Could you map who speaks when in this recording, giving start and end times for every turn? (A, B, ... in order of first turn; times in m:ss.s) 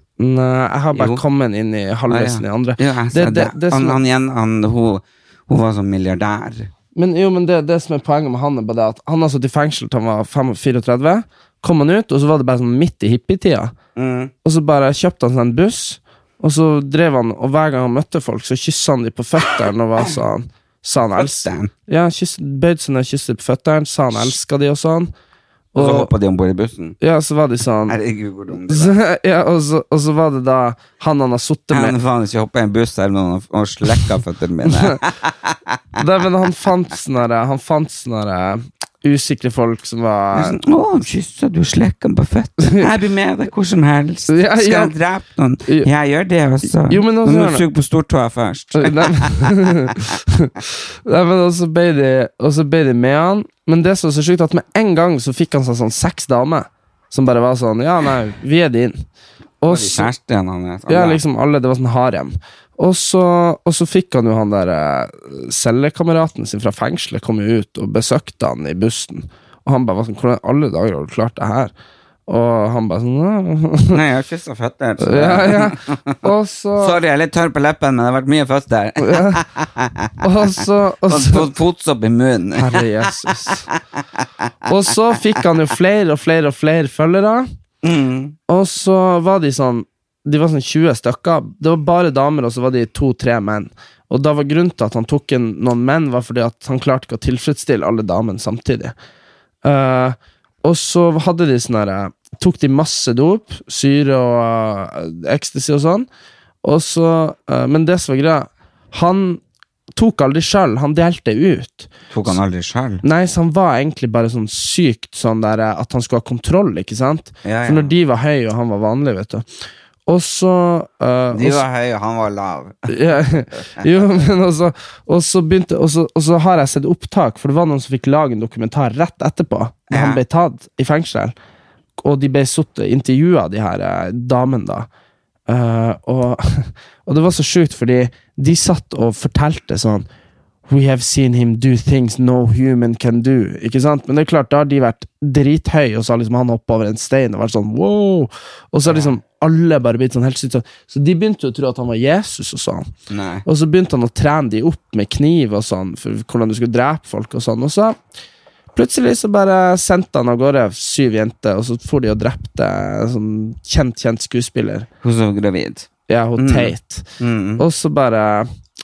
0:00.2-0:04.0 A
0:00.9-0:01.2 B
0:02.1-0:06.7 B
0:07.0-0:13.8 A
0:14.0-0:14.3 B
0:14.4-0:25.1 A
0:21.0-0:21.7 B
0:25.7-0:26.1 A
0:25.8-0:27.0 B
0:27.0-0:28.0 A
0:27.9-0:29.0 B
0:28.5-0:32.0 A
0:31.7-0:36.0 B
0:34.7-0:35.0 A
0:36.0-0:40.6 A
0:40.3-0:50.0 B
0:44.3-0:44.9 A
0:46.9-0:47.6 A
0:48.8-0:59.0 A
0:59.6-1:00.1 A
0:59.6-1:01.2 B
1:00.9-1:11.7 A
1:12.3-1:14.0 A
1:13.9-1:25.5 B
1:15.0-1:17.0 A
1:19.0-1:19.4 A
1:20.2-1:21.5 A
1:22.5-1:23.7 A
1:24.7-1:27.5 A
1:27.8-1:28.4 B
1:28.5-1:38.9 A
1:39.6-1:46.1 A
1:46.6-1:49.4 A
1:50.0-1:52.4 A
1:52.1-1:53.0 B
1:53.0-1:59.4 A
1:57.4-1:57.9 B
2:00.1-2:01.6 A
2:01.3-2:03.2 B
2:02.9-2:11.4 A
2:03.8-2:04.1 B
2:09.9-2:10.2 B
2:12.0-2:14.9 A
2:15.5-2:20.1 A
2:20.7-2:32.9 A
2:28.9-2:29.1 B
2:33.1-2:33.5 B
2:33.4-2:38.0 A
2:38.8-2:44.9 A
2:45.0-2:47.7 B
2:46.1-2:47.1 A
2:47.6-2:48.5 A